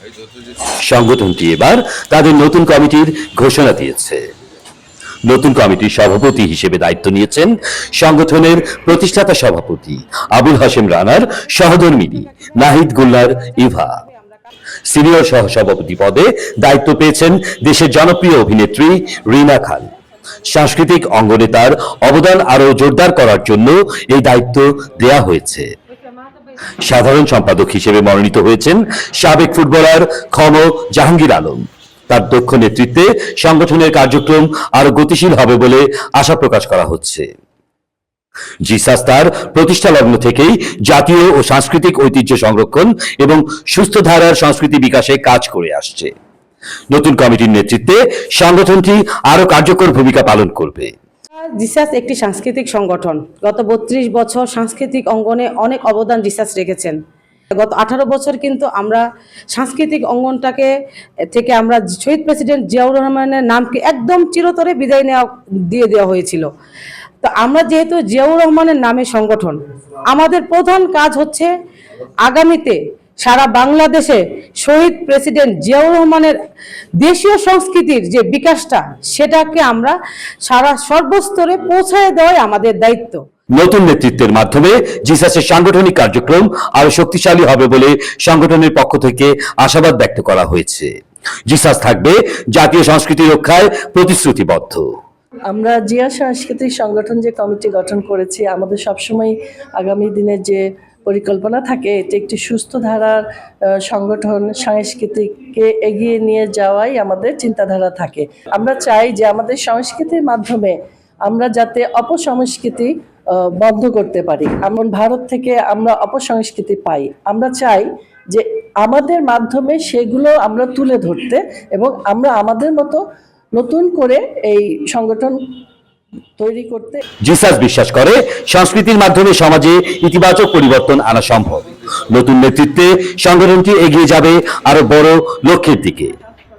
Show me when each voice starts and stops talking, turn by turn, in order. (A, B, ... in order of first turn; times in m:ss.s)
0:00.8-0:04.2 A
0:05.2-0:14.0 A
0:12.4-0:14.5 B
0:14.8-0:19.9 A
0:20.4-0:25.7 A
0:26.8-0:37.3 A
0:38.6-0:46.1 A
0:46.9-0:50.9 A
0:51.4-0:57.0 B
0:57.6-1:00.7 B
1:01.3-1:06.5 B
1:07.2-1:11.5 B
1:12.2-1:16.4 B
1:17.0-1:23.2 B
1:23.5-1:30.9 A
1:31.4-1:34.9 A
1:35.5-1:43.2 C
1:43.9-1:50.8 C
1:51.3-1:52.9 C
1:53.6-2:03.0 C
2:03.5-2:05.4 C
2:06.4-2:07.0 C
2:07.2-2:16.1 A